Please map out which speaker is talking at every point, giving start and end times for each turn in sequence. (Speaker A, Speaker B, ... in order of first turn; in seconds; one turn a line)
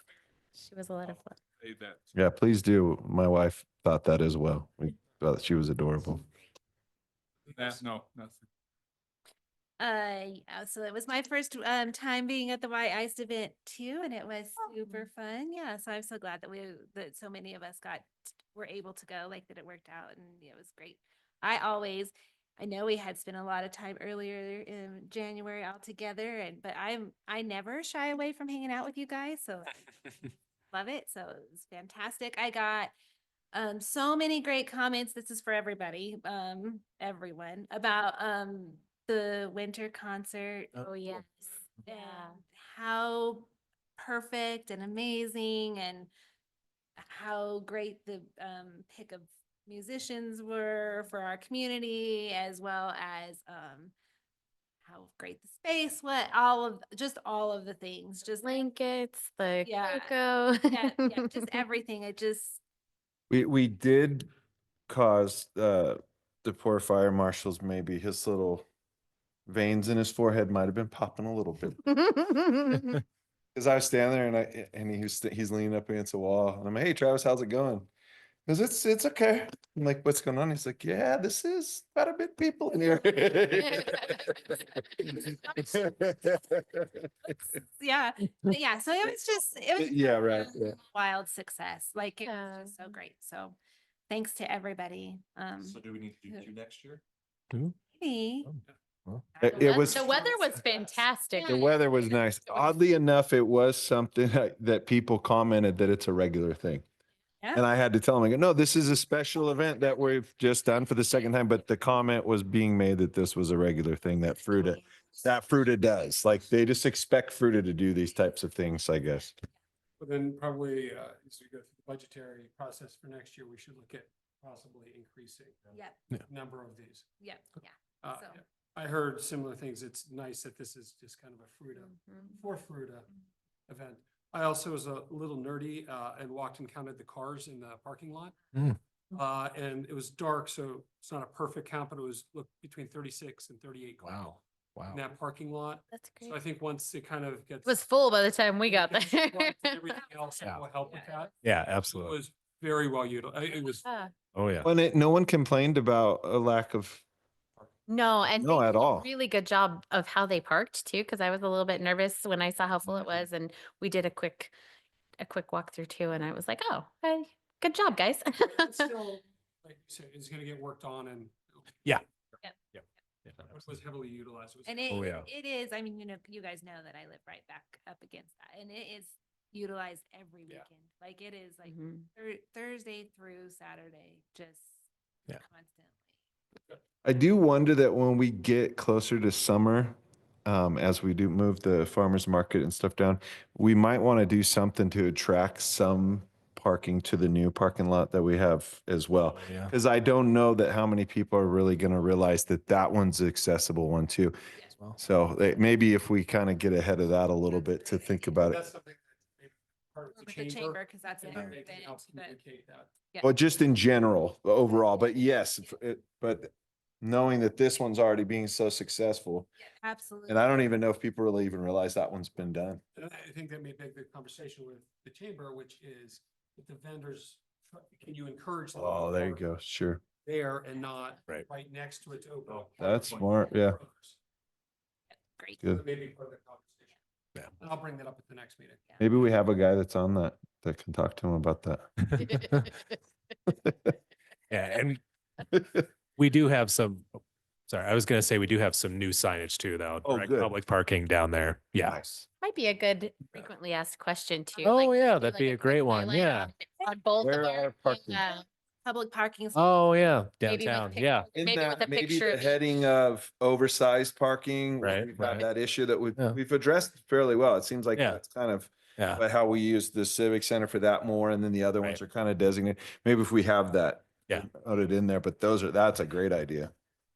Speaker A: 0.6-1.4
Speaker B: 1.0-2.1
Speaker C: 2.1-6.2
Speaker B: 7.5-8.4
Speaker D: 9.8-29.9
Speaker D: 30.7-32.9
Speaker D: 33.5-41.2
Speaker A: 40.8-41.2
Speaker D: 41.8-46.1
Speaker A: 41.9-42.4
Speaker D: 47.0-53.9
Speaker D: 54.8-58.7
Speaker A: 58.4-61.5
Speaker D: 59.6-60.1
Speaker D: 60.7-62.6
Speaker C: 63.3-64.3
Speaker C: 64.9-68.7
Speaker C: 69.5-72.0
Speaker A: 72.1-72.9
Speaker C: 73.5-77.9
Speaker C: 78.5-87.1
Speaker D: 87.5-93.5
Speaker C: 89.8-90.8
Speaker A: 92.2-92.9
Speaker D: 94.1-96.5
Speaker E: 95.7-97.0
Speaker D: 97.9-98.5
Speaker F: 98.5-99.2
Speaker D: 99.3-101.7
Speaker C: 99.4-100.1
Speaker A: 99.5-101.7
Speaker C: 101.4-106.8
Speaker C: 107.5-119.3
Speaker G: 120.0-127.1
Speaker D: 125.7-126.0
Speaker D: 127.2-128.4
Speaker G: 128.0-133.1
Speaker A: 131.9-132.3
Speaker G: 133.7-138.3
Speaker G: 139.1-144.3
Speaker F: 144.0-145.0
Speaker G: 144.9-147.9
Speaker A: 145.9-146.4
Speaker A: 147.6-149.9
Speaker G: 148.6-151.3
Speaker F: 151.4-152.2
Speaker G: 151.8-153.9
Speaker A: 153.8-154.1
Speaker F: 154.3-154.7
Speaker C: 154.6-157.0
Speaker A: 157.9-164.5
Speaker C: 158.4-159.1
Speaker A: 165.2-168.9
Speaker G: 168.4-171.7
Speaker F: 172.7-173.6
Speaker G: 173.4-175.1
Speaker D: 174.7-184.7
Speaker F: 174.9-175.2
Speaker A: 181.6-182.0
Speaker D: 185.3-186.0
Speaker C: 187.0-204.3
Speaker F: 199.3-199.7
Speaker C: 205.0-208.6
Speaker G: 208.2-212.9
Speaker D: 210.2-212.3
Speaker C: 213.2-219.5
Speaker D: 219.8-220.5
Speaker C: 220.3-222.8
Speaker G: 222.9-229.4
Speaker C: 228.7-230.0
Speaker G: 230.2-234.2
Speaker E: 232.5-233.1
Speaker C: 232.8-233.8
Speaker G: 235.6-237.0
Speaker G: 237.6-239.0
Speaker C: 239.0-241.9
Speaker F: 244.5-245.0
Speaker F: 246.2-252.0
Speaker C: 250.0-250.5
Speaker C: 251.8-252.1
Speaker A: 252.4-258.4
Speaker F: 254.6-256.5
Speaker C: 257.2-258.2
Speaker D: 258.8-259.9
Speaker F: 259.5-261.3
Speaker A: 260.4-262.6
Speaker C: 261.3-276.7
Speaker F: 264.8-265.5
Speaker F: 267.9-268.2
Speaker F: 269.0-269.2